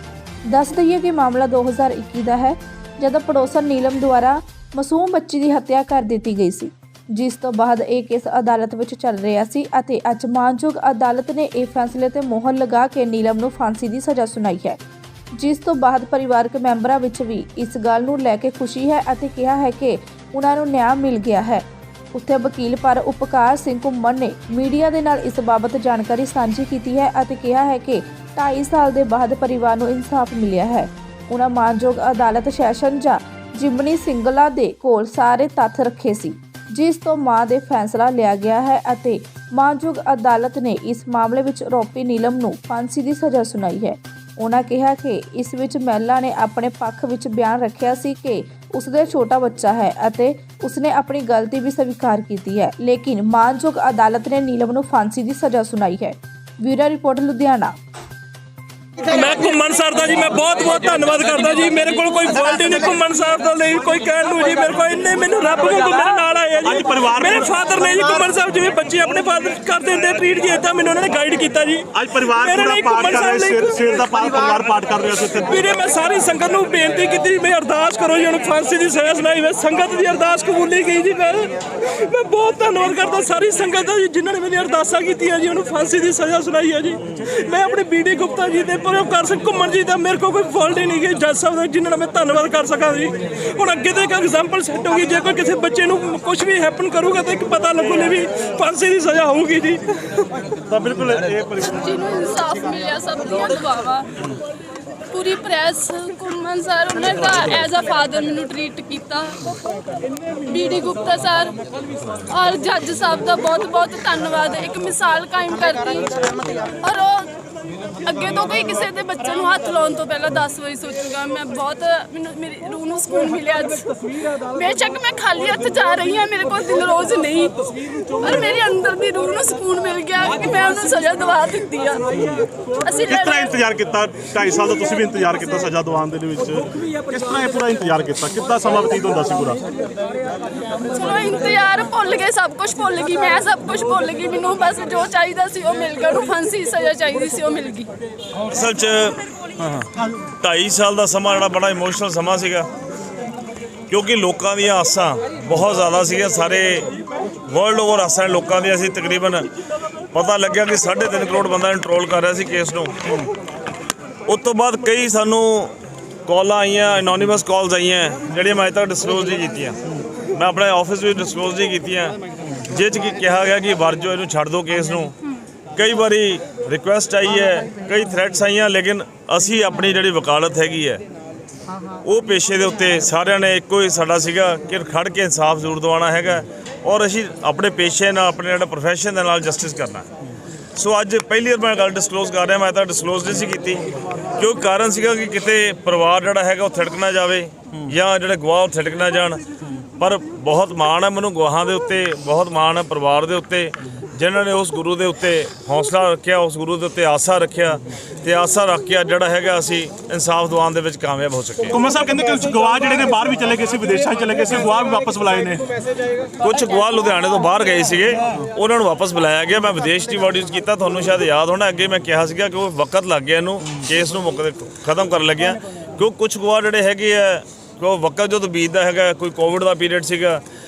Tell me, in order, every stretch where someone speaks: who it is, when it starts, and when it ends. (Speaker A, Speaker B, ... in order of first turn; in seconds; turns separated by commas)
Speaker A: 0.5-14.8, Speaker A: 15.3-57.8, Speaker B: 59.0-74.1, Speaker C: 66.6-67.9, Speaker C: 71.9-75.7, Speaker B: 75.5-100.4, Speaker C: 100.6-101.9, Speaker D: 101.7-104.1, Speaker D: 105.1-109.4, Speaker D: 110.4-111.6, Speaker D: 112.2-117.3, Speaker D: 118.0-132.1, Speaker D: 132.8-133.6, Speaker C: 133.1-139.6, Speaker D: 140.9-147.9, Speaker E: 148.5-149.2, Speaker C: 149.6-149.9, Speaker E: 150.4-152.7, Speaker E: 153.9-156.9, Speaker E: 157.5-159.5, Speaker E: 160.1-163.2, Speaker E: 164.3-165.7, Speaker E: 166.3-169.8, Speaker E: 170.3-175.2, Speaker E: 175.8-181.0, Speaker E: 182.0-190.1, Speaker E: 190.8-193.8, Speaker E: 194.4-199.4, Speaker E: 200.0-211.8, Speaker C: 211.7-215.7, Speaker E: 216.4-230.4